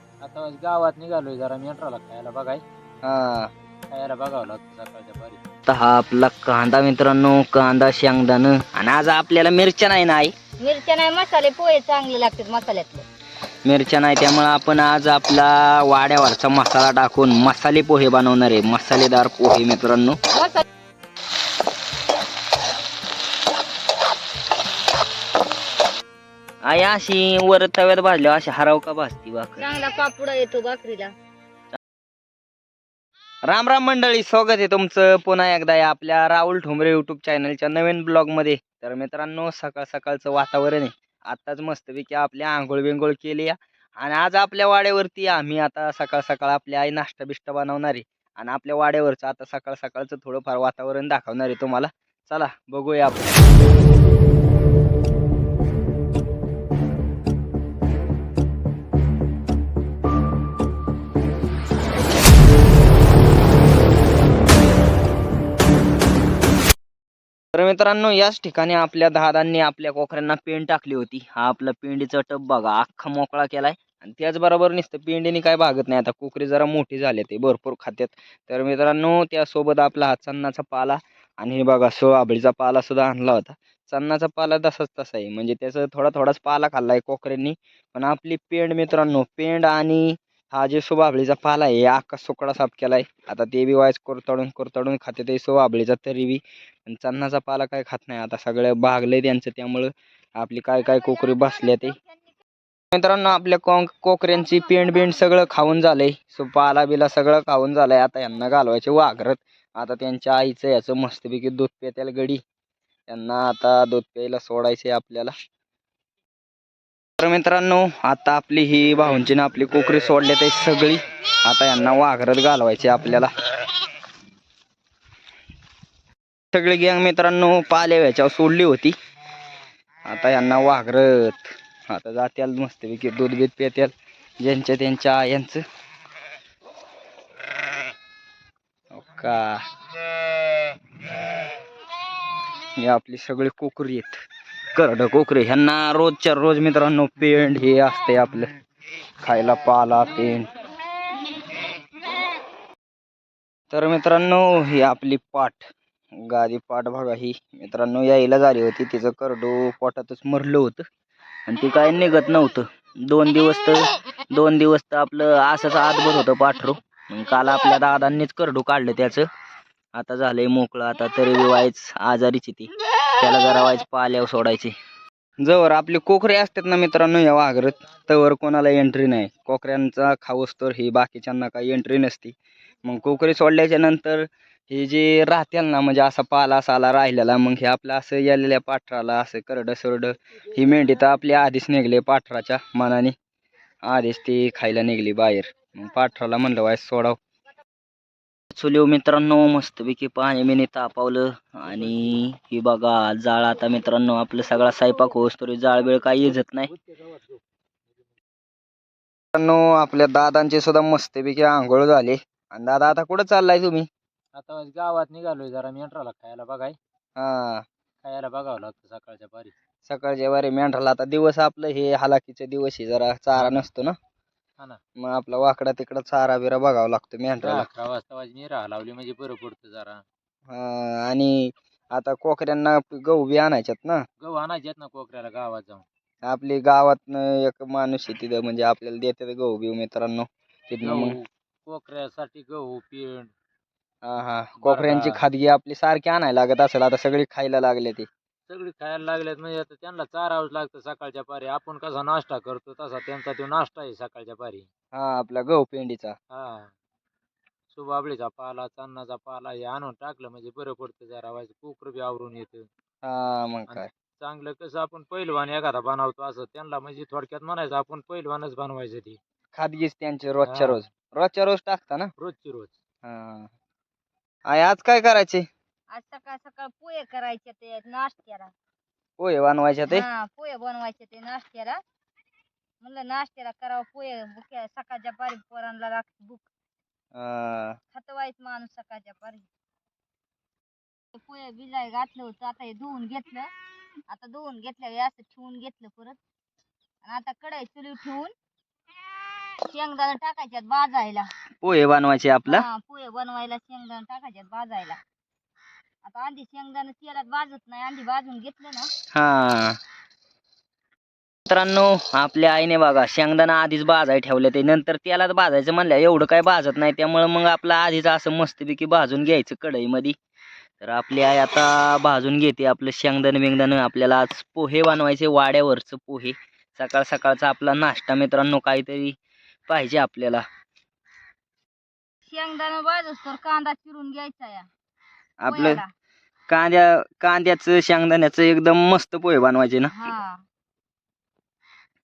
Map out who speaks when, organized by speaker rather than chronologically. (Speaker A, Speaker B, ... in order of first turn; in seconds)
Speaker A: 0.2-2.6, 3.9-5.4, 201.7-202.1, 205.8-207.4, 214.3-216.8, 218.0-219.5, 223.4-223.7, 227.4-230.0, 234.2-235.8, 240.8-243.3, 244.6-245.2, 248.5-254.7, 256.3-256.7, 257.7-262.7, 263.7-269.2, 270.5-270.8, 272.2-272.8
Speaker B: 3.0-3.5, 5.7-10.3, 13.7-20.2, 26.6-29.7, 33.5-53.4, 67.5-102.0, 102.9-112.4, 113.1-115.3, 117.2-123.3, 126.5-128.9, 130.1-135.6, 138.9-139.6, 142.8-144.2, 144.7-148.5, 149.2-150.5, 153.7-160.9, 161.5-169.3, 169.9-174.8, 175.4-193.2, 193.9-197.2, 198.5-206.7, 209.3-213.9, 217.2-217.7, 219.9-224.0, 225.0-227.7, 230.5-234.0, 236.2-241.2, 244.0-248.1, 254.9-256.2, 263.0-263.9, 269.5-272.1, 273.0-273.5, 274.5-275.5, 279.2-280.1, 287.1-287.8, 301.6-302.7, 309.1-309.8, 311.5-320.2, 320.8-329.2, 329.7-330.5, 335.4-335.8, 336.5-340.0
Speaker C: 10.6-13.1, 20.3-20.6, 29.6-31.1, 275.9-278.5, 279.9-281.8, 282.8-286.5, 287.9-289.5, 291.1-293.5, 294.1-296.2, 297.0-298.3, 299.4-301.3, 302.5-305.0, 306.0-308.9, 332.3-334.7, 335.5-335.9, 339.9-340.4